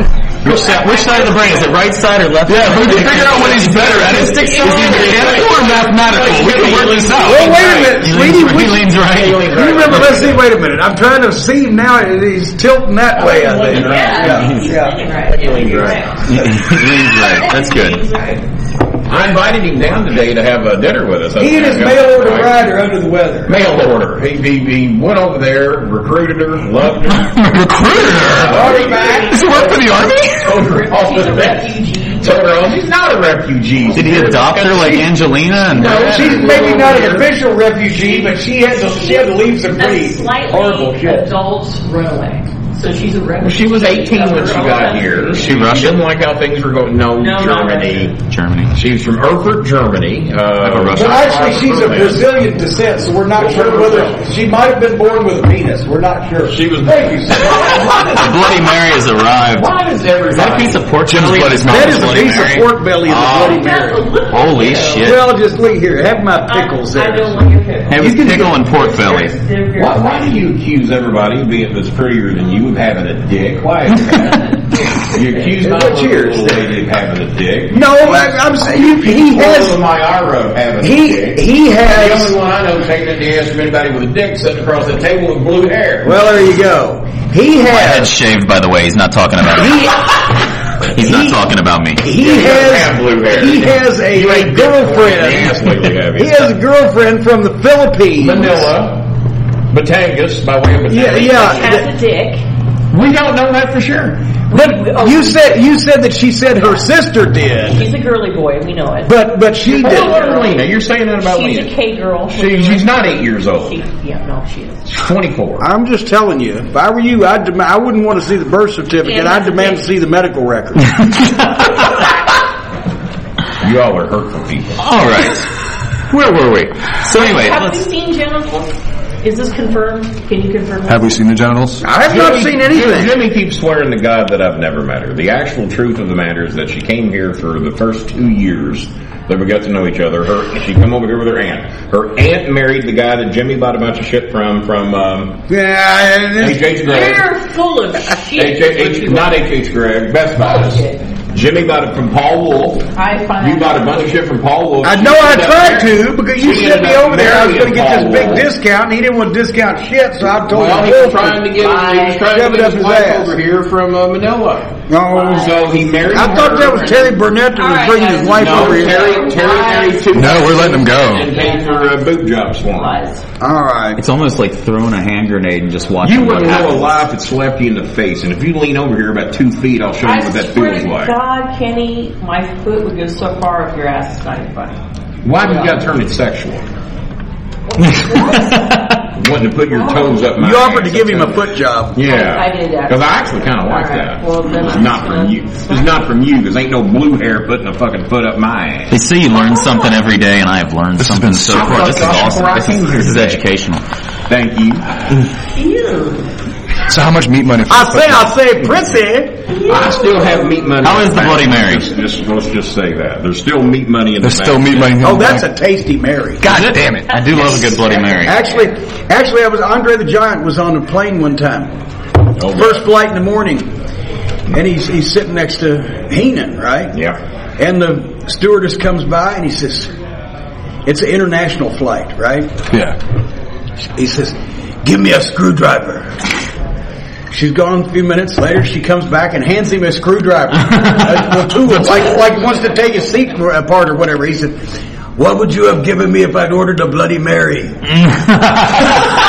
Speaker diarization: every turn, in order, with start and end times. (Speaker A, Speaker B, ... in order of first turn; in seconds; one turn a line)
Speaker A: 0.4-9.9
Speaker B: 0.8-1.6
Speaker C: 2.5-7.6
Speaker D: 4.4-8.1
Speaker E: 7.3-8.9
Speaker D: 9.0-10.5
Speaker E: 9.4-15.0
Speaker D: 13.2-16.0
Speaker B: 13.2-18.4
Speaker A: 16.3-18.0
Speaker D: 19.1-22.6
Speaker E: 21.4-23.5
Speaker D: 23.5-27.5
Speaker C: 27.4-28.8
Speaker D: 28.4-29.9
Speaker E: 28.5-29.4
Speaker C: 29.3-30.6
Speaker D: 30.4-37.3
Speaker B: 30.6-32.5
Speaker A: 33.9-36.7
Speaker E: 34.8-35.0
Speaker E: 35.7-41.3
Speaker B: 36.5-45.5
Speaker D: 43.4-48.2
Speaker A: 45.4-46.0
Speaker B: 47.2-48.1
Speaker A: 48.2-48.7
Speaker D: 48.7-52.3
Speaker A: 50.6-51.4
Speaker E: 51.0-57.8
Speaker D: 53.4-54.3
Speaker D: 56.5-58.5
Speaker A: 57.7-59.7
Speaker D: 59.6-60.9
Speaker A: 60.3-63.6
Speaker C: 61.1-62.4
Speaker E: 61.6-64.1
Speaker B: 63.3-65.2
Speaker A: 64.3-65.2
Speaker E: 65.0-67.5
Speaker B: 66.5-70.4
Speaker A: 67.9-69.3
Speaker E: 68.0-68.5
Speaker D: 69.8-74.4
Speaker B: 74.1-75.5
Speaker D: 75.0-86.2
Speaker E: 75.6-76.8
Speaker E: 77.7-79.8
Speaker E: 80.8-82.4
Speaker E: 86.0-88.2
Speaker A: 87.7-89.9
Speaker E: 89.5-90.4
Speaker A: 90.9-92.0
Speaker E: 91.0-91.4
Speaker E: 92.0-98.7
Speaker D: 92.1-96.5
Speaker D: 98.2-99.0
Speaker D: 99.7-101.7
Speaker E: 100.9-101.9
Speaker B: 101.0-102.5
Speaker D: 102.9-104.2
Speaker B: 104.5-105.4
Speaker E: 104.5-107.9
Speaker B: 107.7-114.9
Speaker E: 109.1-110.3
Speaker D: 109.7-111.7
Speaker D: 112.3-113.8
Speaker D: 114.9-115.7
Speaker E: 115.6-121.0
Speaker B: 119.0-119.9
Speaker D: 123.6-124.9
Speaker A: 124.8-125.5
Speaker A: 126.1-127.8
Speaker B: 127.1-128.7
Speaker B: 129.2-131.2
Speaker C: 130.9-131.8
Speaker E: 131.8-133.1
Speaker D: 132.0-145.4
Speaker E: 145.5-146.6
Speaker D: 146.4-147.3
Speaker B: 146.8-149.3
Speaker D: 148.4-158.5
Speaker B: 150.4-151.0
Speaker B: 152.9-153.8
Speaker E: 154.8-161.7
Speaker D: 160.4-167.2
Speaker B: 161.6-162.2
Speaker E: 162.2-163.4
Speaker E: 164.9-165.6
Speaker B: 165.2-165.7
Speaker E: 166.1-169.2
Speaker B: 167.6-172.1
Speaker D: 168.3-172.9
Speaker C: 170.1-171.3
Speaker B: 172.7-173.2
Speaker E: 173.4-174.0
Speaker A: 174.0-177.0
Speaker D: 176.0-181.1
Speaker B: 180.0-184.8
Speaker D: 185.2-186.6
Speaker B: 185.4-185.9
Speaker B: 187.7-189.0
Speaker D: 189.2-199.0
Speaker B: 189.7-190.3
Speaker E: 190.4-192.0
Speaker B: 192.0-193.0
Speaker B: 193.6-195.9
Speaker A: 198.9-203.8
Speaker B: 199.4-199.9
Speaker C: 201.0-201.8
Speaker D: 201.5-203.4
Speaker D: 204.3-204.9
Speaker B: 205.6-206.3
Speaker C: 206.9-208.4
Speaker E: 207.7-209.4
Speaker B: 209.5-210.7
Speaker D: 209.7-215.0
Speaker A: 210.8-211.9
Speaker C: 214.2-215.5
Speaker E: 215.0-216.4
Speaker C: 216.4-217.1
Speaker A: 216.4-218.4
Speaker E: 218.2-221.7
Speaker D: 222.4-222.8
Speaker E: 222.5-223.7
Speaker E: 224.5-226.9
Speaker D: 226.9-227.2
Speaker E: 227.6-229.9
Speaker E: 230.9-232.5
Speaker C: 232.7-233.0
Speaker E: 233.9-236.1
Speaker E: 237.3-244.6
Speaker E: 245.2-247.8
Speaker A: 248.0-248.9